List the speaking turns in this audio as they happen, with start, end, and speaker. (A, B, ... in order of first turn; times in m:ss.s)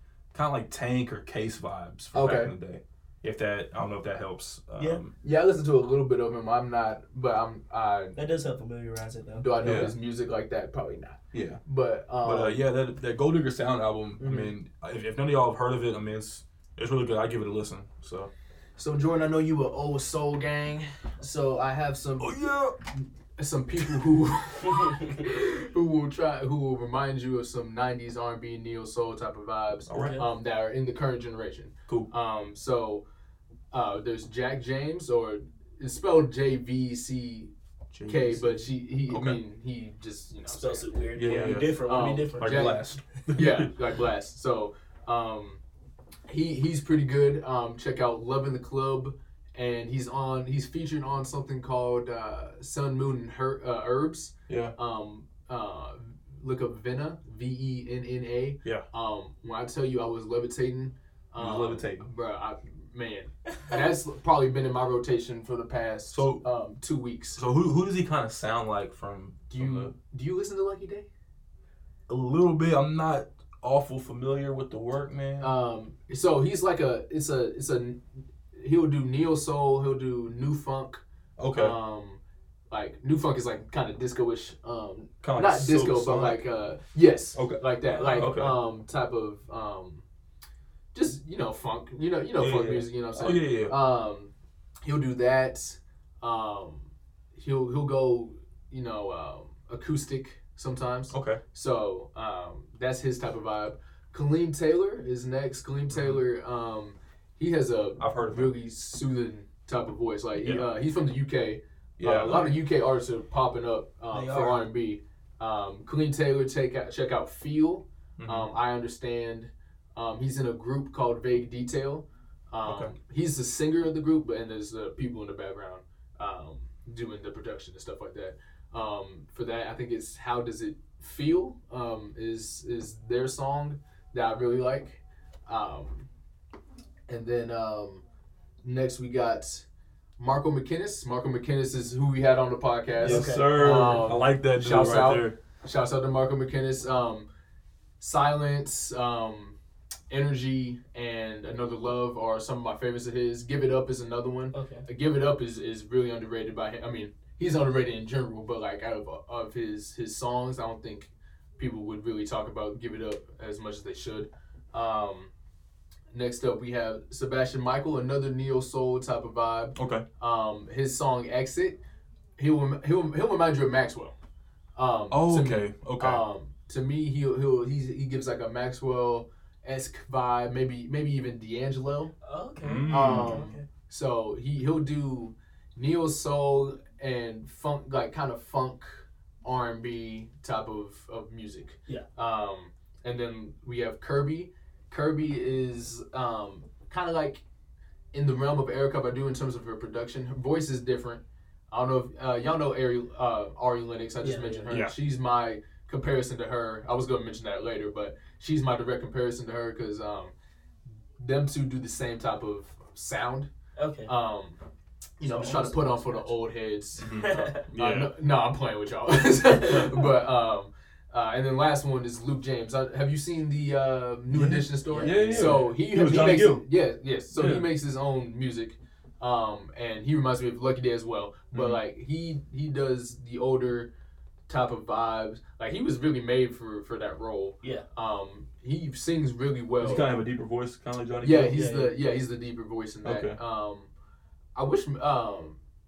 0:00.3-0:05.1 A
0:02.1-0:02.5 B
0:05.2-0:08.2 B
0:08.2-0:09.8 C
0:09.4-0:12.6 B
0:09.6-0:10.0 A
0:11.3-0:11.6 A
0:12.2-0:18.3 A
0:14.2-0:14.5 B
0:18.8-0:22.4 B
0:22.2-0:22.8 A
0:23.0-0:33.0 B
0:29.9-0:30.2 A
0:29.9-0:30.3 C
0:33.7-0:37.5 B
0:37.9-0:39.4 A
0:38.1-0:45.6 B
0:40.5-0:42.7 C
0:41.2-0:41.7 A
0:42.4-0:43.7 A
0:46.3-1:07.4 B
0:54.5-0:54.8 A
1:01.4-1:02.1 A
1:06.1-1:06.4 A
1:07.4-1:09.9 A
1:09.5-1:11.1 B
1:12.1-1:15.5 A
1:15.4-1:18.0 B
1:18.5-1:21.0 B
1:21.4-1:21.8 A
1:21.5-1:30.0 B
1:25.2-1:26.4 A
1:27.4-1:28.6 A
1:30.9-1:34.3 B
1:32.4-1:33.8 A
1:34.8-2:16.1 B
1:41.1-1:41.4 A
1:45.9-1:46.2 A
1:48.0-1:48.5 A
1:50.4-1:50.7 A
1:52.0-1:52.5 A
1:54.1-1:54.7 C
1:58.2-1:58.5 A
2:02.6-2:02.9 A
2:17.1-2:18.0 B
2:18.6-2:19.7 B
2:20.2-2:27.3 B
2:23.0-2:24.0 C
2:23.0-2:25.4 A
2:28.0-2:29.6 B
2:30.1-2:45.3 B
2:34.5-2:34.8 C
2:46.1-2:51.8 B
2:49.8-2:50.0 A
2:52.4-2:54.2 B
2:54.8-3:02.1 B
2:55.1-2:56.2 A
3:02.2-3:03.6 C
3:02.6-3:03.6 A
3:02.9-3:17.4 B
3:18.1-3:30.3 B
3:24.2-3:24.7 C
3:24.7-3:25.0 A
3:31.2-3:33.5 B
3:33.8-3:34.1 C
3:34.1-3:34.6 B
3:35.2-3:53.9 B
3:35.2-3:36.3 C
3:37.0-3:38.1 A
3:37.1-3:37.6 C
3:39.6-3:40.1 A
3:44.3-3:46.7 A
3:44.9-3:45.7 C
3:47.3-3:47.7 A
3:51.5-3:51.8 A
3:54.5-4:00.1 B
3:59.8-4:01.8 A
4:01.2-4:03.9 B
4:01.6-4:01.9 C
4:03.0-4:03.4 A
4:04.6-4:05.6 B